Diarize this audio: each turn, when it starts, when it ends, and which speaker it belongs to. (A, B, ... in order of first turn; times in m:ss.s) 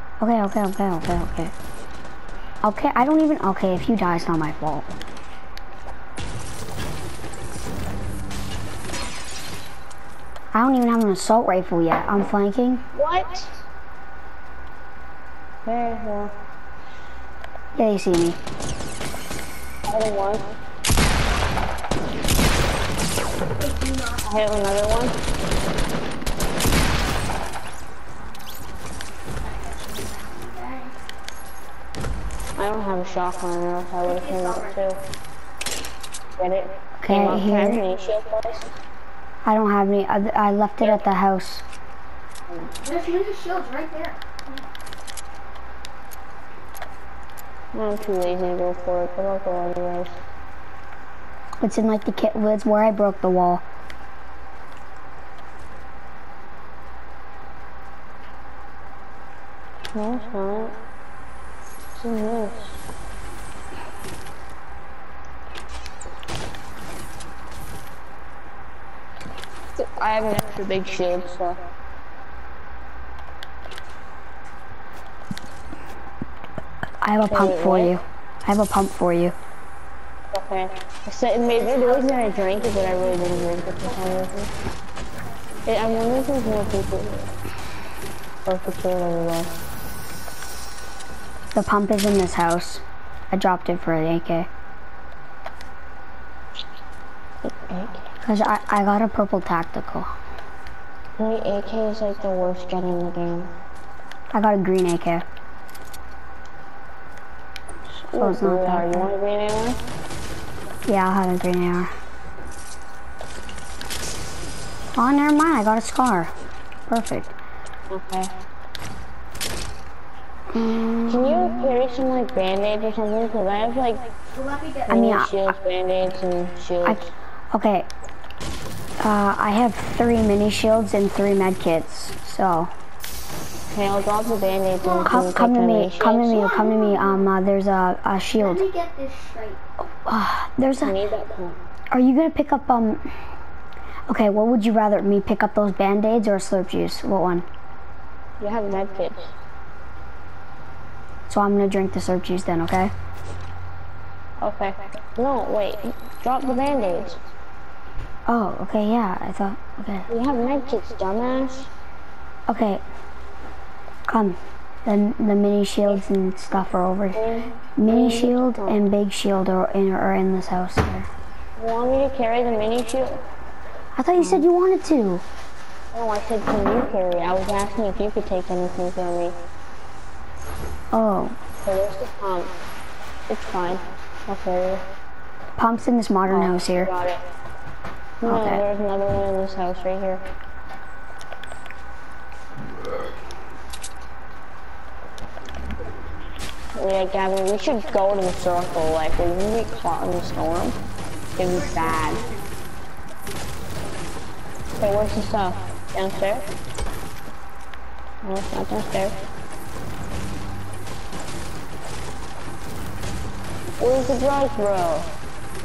0:00.2-0:01.5 A
0:02.6-0:04.9 A
0:10.5-0:12.8 A
0:12.9-0:13.6 B
0:15.6-0:16.3 B
0:17.8-0:18.4 A
0:19.9-0:20.5 B
0:23.6-0:24.4 C
0:24.2-0:25.2 B
0:29.5-0:31.0 C
0:32.6-0:35.0 B
0:34.0-0:34.8 C
0:36.4-0:38.7 B
0:37.0-0:37.8 A
0:39.4-0:41.6 A
0:42.5-0:42.7 B
0:42.8-0:44.6 C
0:47.7-0:50.2 B
0:51.6-0:53.6 A
0:59.9-1:00.8 B
1:02.0-1:02.7 B
1:09.8-1:11.6 B
1:17.0-1:19.3 A
1:17.2-1:18.0 B
1:20.3-1:24.5 B
1:21.6-1:23.8 C
1:25.6-1:27.3 B
1:28.4-1:29.5 B
1:31.5-1:34.5 A
1:37.4-1:38.1 B
1:38.2-1:40.1 A
1:41.2-1:43.5 B
1:44.3-1:45.2 A
1:47.9-1:49.1 A
1:48.1-1:49.8 B
1:50.9-1:51.9 A
1:55.0-1:56.3 A
1:56.9-1:57.3 A
1:57.9-1:58.4 B
2:00.5-2:01.7 A
2:01.1-2:04.1 B
2:04.3-2:05.1 C
2:04.9-2:05.5 A
2:04.9-2:07.0 B
2:06.8-2:07.9 A
2:09.0-2:12.7 A
2:13.7-2:16.4 B
2:14.8-2:15.3 C
2:15.0-2:18.6 A
2:16.0-2:17.3 C
2:18.4-2:19.6 C
2:19.8-2:21.0 A
2:20.8-2:21.6 B
2:21.9-2:23.0 A
2:24.1-2:27.4 A
2:28.4-2:29.3 B
2:31.3-2:32.9 A
2:34.4-2:37.3 B
2:38.3-2:40.1 A
2:40.1-2:41.7 B
2:42.5-2:42.8 A
2:44.1-2:47.2 A
2:47.1-2:48.8 B
2:47.8-2:51.1 A
2:51.6-2:53.2 B
2:53.9-2:55.2 A
2:54.2-2:54.4 B
2:55.9-2:59.4 B
3:00.9-3:01.4 A
3:01.6-3:02.5 B
3:03.3-3:04.9 B
3:05.6-3:06.9 A
3:06.3-3:07.2 B
3:08.2-3:10.3 B
3:08.2-3:08.6 A
3:16.7-3:20.8 B
3:21.4-3:22.2 B
3:21.4-3:22.4 C
3:24.8-3:26.5 B
3:28.2-3:29.2 B
3:33.8-3:35.1 B